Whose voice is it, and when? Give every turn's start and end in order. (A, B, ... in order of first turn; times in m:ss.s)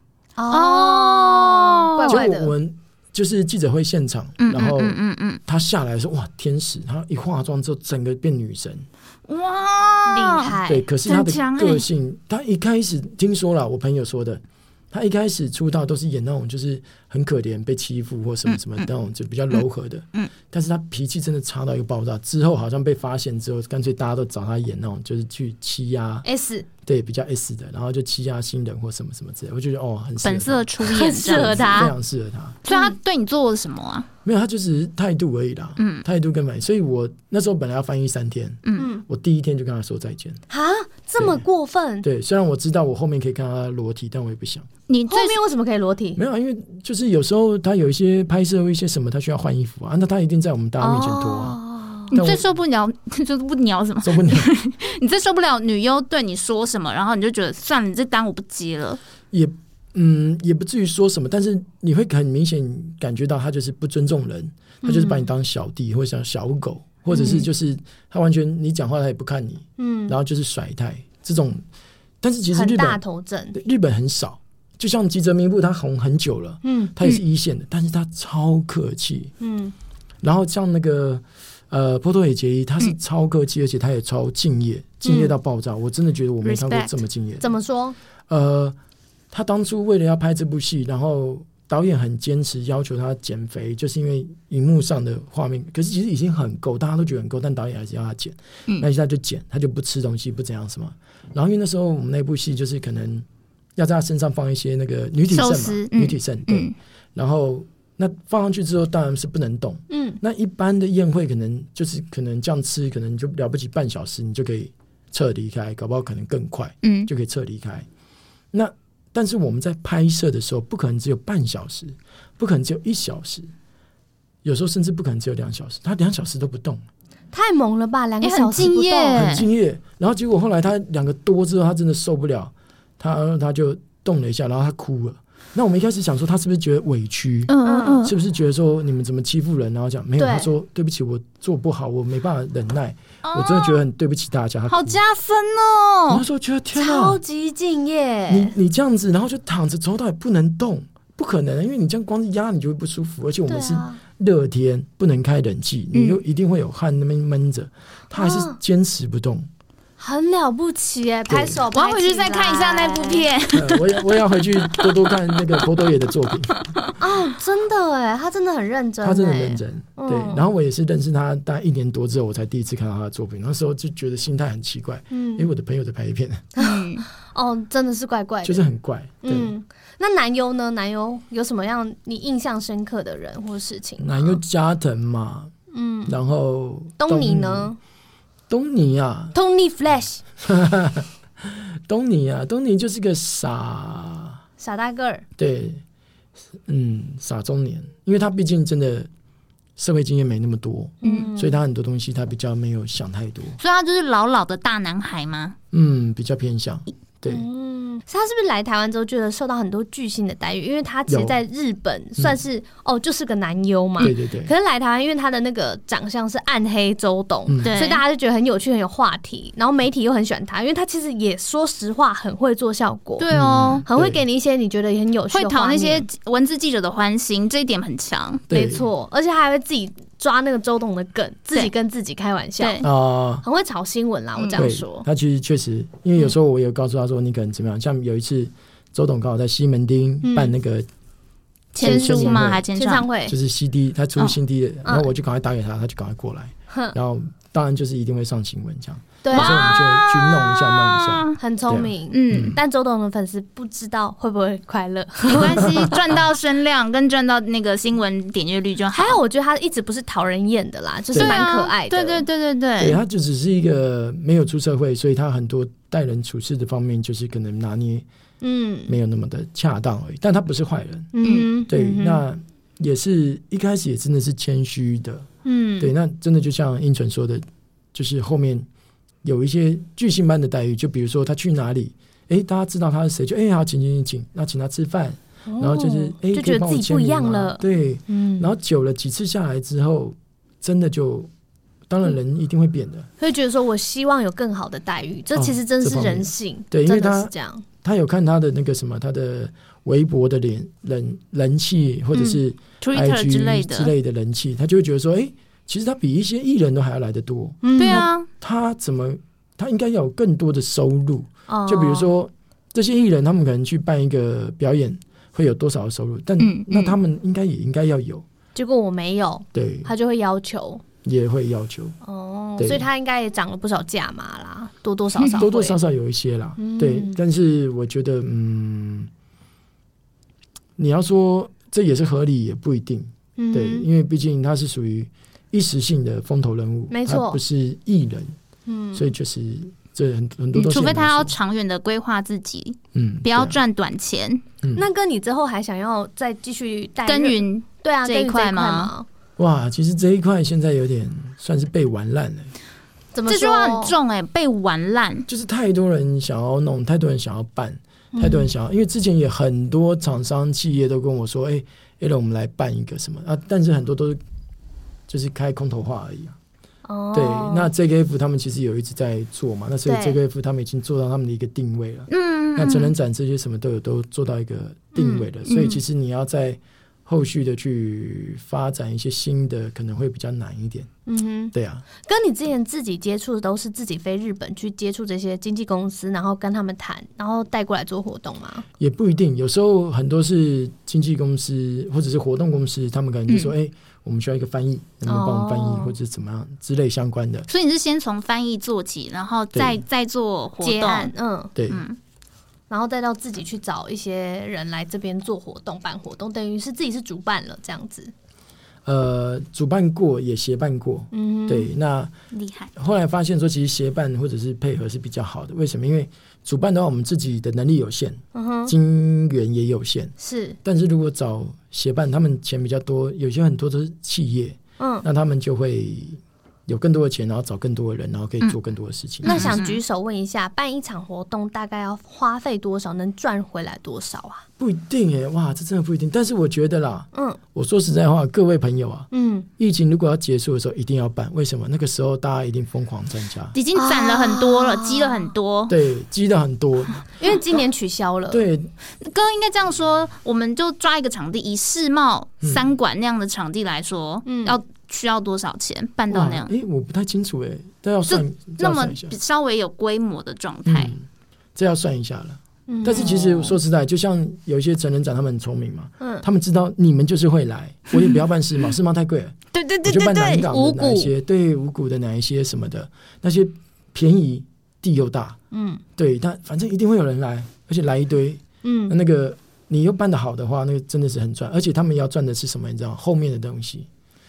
0:00.4-0:02.5 A
0:00.5-0:02.2 B
0:02.1-0:08.8 C
0:04.4-0:05.4 B
0:09.3-0:11.8 B
0:10.0-0:10.8 A
0:10.6-0:26.2 C
0:18.5-0:18.8 B
0:26.2-0:26.7 A
0:26.8-0:32.6 C
0:30.2-0:31.8 B
0:30.8-0:31.9 A
0:32.6-0:34.1 B
0:32.7-0:32.9 A
0:34.2-0:40.4 C
0:35.8-0:36.0 B
0:38.8-0:39.0 A
0:40.5-0:42.0 A
0:41.2-0:41.4 C
0:42.0-0:44.7 C
0:44.9-0:45.4 B
0:45.1-0:46.2 A
0:46.2-0:51.6 C
0:50.8-0:52.1 A
0:52.1-0:59.0 B
0:52.1-0:52.4 C
0:54.0-0:54.5 C
0:59.3-1:11.6 C
1:04.8-1:05.3 A
1:07.1-1:07.5 A
1:09.8-1:10.1 A
1:12.2-1:13.0 C
1:12.5-1:13.5 A
1:13.5-1:19.3 C
1:16.6-1:16.9 A
1:19.4-1:19.7 A
1:20.2-1:27.5 C
1:26.4-1:27.0 B
1:27.4-1:28.0 A
1:28.3-1:28.8 C
1:29.3-1:57.8 C
1:45.3-1:46.7 B
1:49.9-1:50.2 A
1:56.8-1:57.1 B
1:58.5-2:03.5 C
2:04.4-2:06.8 C
2:07.3-2:09.2 A
2:08.2-2:09.5 B
2:09.1-2:25.0 C
2:17.5-2:18.1 B
2:17.6-2:18.0 A
2:20.2-2:20.5 A
2:23.2-2:23.8 B
2:24.7-2:26.2 B
2:26.1-2:27.2 C
2:26.8-2:28.5 A
2:28.3-2:39.5 C
2:33.5-2:34.0 A
2:35.9-2:36.2 B
2:38.1-2:38.6 A
2:40.0-2:43.3 A
2:41.3-2:41.6 C
2:41.7-2:44.9 B
2:43.5-2:46.6 C
2:47.0-2:50.4 A
2:49.0-2:56.5 C
2:55.1-2:55.5 A
2:56.6-2:57.0 B
2:56.6-2:58.6 A
2:58.4-2:59.5 C
2:59.2-3:04.4 A
3:04.0-3:05.5 C
3:05.7-3:06.2 A
3:06.1-3:07.7 C
3:07.0-3:07.8 A
3:08.5-3:09.3 C
3:09.3-3:10.2 A
3:10.4-3:14.4 C
3:14.6-3:15.2 A
3:15.4-3:15.8 C
3:16.6-3:19.1 C
3:19.8-3:23.6 C
3:21.0-3:21.5 A
3:23.6-3:25.6 B
3:25.7-3:27.4 C
3:27.3-3:43.2 A
3:31.1-3:31.4 C
3:34.0-3:34.5 C
3:37.5-3:37.8 C
3:37.6-3:38.0 B
3:43.2-3:43.8 B
3:43.3-3:44.2 C
3:43.8-3:46.1 A
3:45.3-3:48.4 B
3:48.5-3:48.9 C
3:48.5-3:52.8 A
3:52.6-3:52.9 B
3:52.8-3:53.4 C
3:53.4-3:55.0 A
3:54.6-4:00.9 C
4:00.2-4:00.5 A
4:01.7-4:03.1 B
4:01.8-4:03.3 A
4:01.8-4:02.6 C
4:03.3-4:12.6 C
4:04.8-4:05.1 A
4:06.7-4:06.9 A
4:09.2-4:09.8 A
4:09.3-4:11.4 B
4:11.4-4:15.9 A
4:12.1-4:12.6 B
4:15.3-4:19.2 B
4:15.3-4:16.0 C
4:18.9-4:22.2 A
4:21.1-4:21.4 C
4:21.2-4:23.0 B
4:22.8-4:28.0 C
4:28.4-4:28.9 A
4:28.9-4:31.1 C
4:31.1-4:32.2 A
4:31.7-4:35.3 C
4:35.4-4:35.9 A
4:35.8-4:38.7 C
4:39.2-4:51.3 C
4:45.5-4:48.5 A
4:51.9-4:53.1 C
4:53.2-4:57.6 A
4:55.3-5:18.2 C
5:02.8-5:03.9 B
5:07.6-5:08.1 A
5:07.8-5:08.3 B
5:11.5-5:12.1 A
5:16.4-5:17.0 B
5:18.5-5:20.8 A
5:19.5-5:19.9 C
5:21.0-5:21.9 C
5:22.0-5:25.8 A
5:22.6-5:22.8 C
5:25.2-5:29.1 C
5:26.6-5:27.2 A
5:30.8-5:38.4 C
5:33.4-5:33.8 A
5:36.9-5:37.4 A
5:38.7-5:39.1 A
5:38.9-5:41.4 C
5:40.5-5:44.4 B
5:42.9-5:43.6 C
5:44.7-5:49.1 A
5:47.0-5:48.9 B
5:49.4-5:52.5 C
5:53.1-5:53.9 A
5:53.3-5:55.2 B
5:55.3-6:04.2 C
5:58.1-5:58.5 A
6:05.1-6:06.4 C
6:06.8-6:07.7 A
6:07.1-6:20.9 C
6:09.8-6:10.2 A
6:12.1-6:12.9 B
6:14.9-6:15.7 A
6:15.4-6:15.8 B
6:21.1-6:28.6 A
6:21.5-6:21.8 C
6:28.8-6:37.5 C
6:33.3-6:33.5 B
6:35.0-6:35.9 A
6:37.5-6:41.1 B
6:39.5-6:39.8 C
6:40.6-6:41.5 A
6:41.6-6:41.8 C
6:41.7-6:42.0 B
6:42.7-6:48.1 A
6:48.8-6:52.1 C
6:51.1-6:51.7 A
6:52.3-6:52.7 B
6:52.8-7:09.6 C
6:58.3-6:58.7 A
7:00.2-7:00.6 A
7:04.8-7:05.0 A
7:09.2-7:14.4 A
7:09.2-7:09.8 B
7:14.6-7:23.6 C
7:17.1-7:17.4 A
7:19.1-7:19.5 A
7:23.5-7:25.7 B
7:23.7-7:25.3 A
7:25.7-7:27.0 C
7:27.2-7:28.4 A
7:28.3-7:28.7 C
7:29.0-7:36.5 B
7:32.4-7:32.7 C
7:34.2-7:34.6 A
7:36.1-7:39.2 C
7:38.1-7:40.9 B
7:40.6-7:55.4 C
7:42.7-7:43.6 A
7:46.0-7:46.2 A
7:47.9-7:48.2 B
7:49.5-7:51.0 B
7:55.5-7:55.8 A
7:56.0-8:03.9 C
7:58.6-7:58.9 A